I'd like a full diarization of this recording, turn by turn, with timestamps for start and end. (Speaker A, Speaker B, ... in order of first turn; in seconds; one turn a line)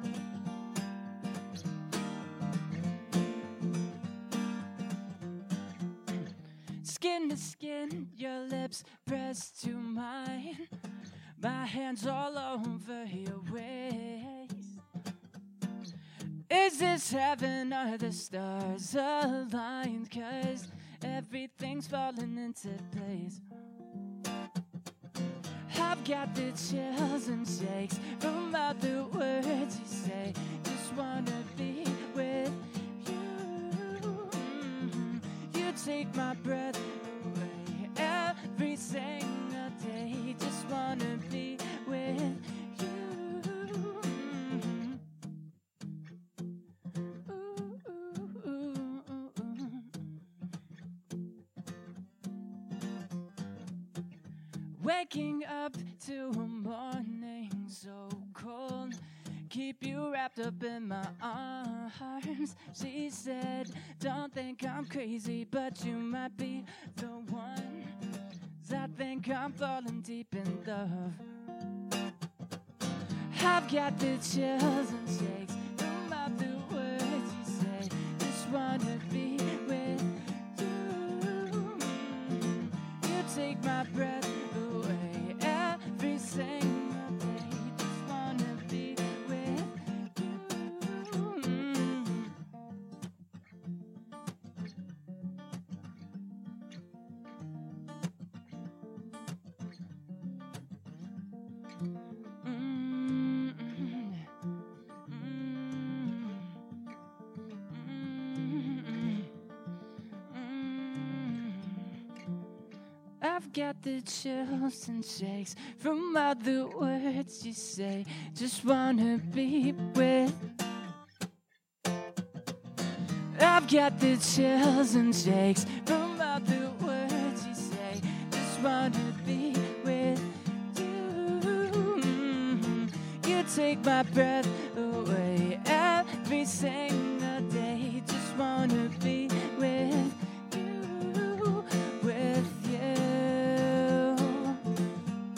Speaker A: 6.8-10.7
Speaker A: 11.4-14.8
Speaker A: 16.5-23.4
Speaker A: 25.7-45.0
Speaker A: 47.3-50.0
Speaker A: 54.7-68.0
Speaker A: 68.6-71.2
Speaker A: 73.3-92.3
Speaker A: 102.4-104.3
Speaker A: 105.1-106.5
Speaker A: 107.7-109.3
Speaker A: 110.2-112.0
Speaker A: 113.2-120.4
Speaker A: 123.3-144.6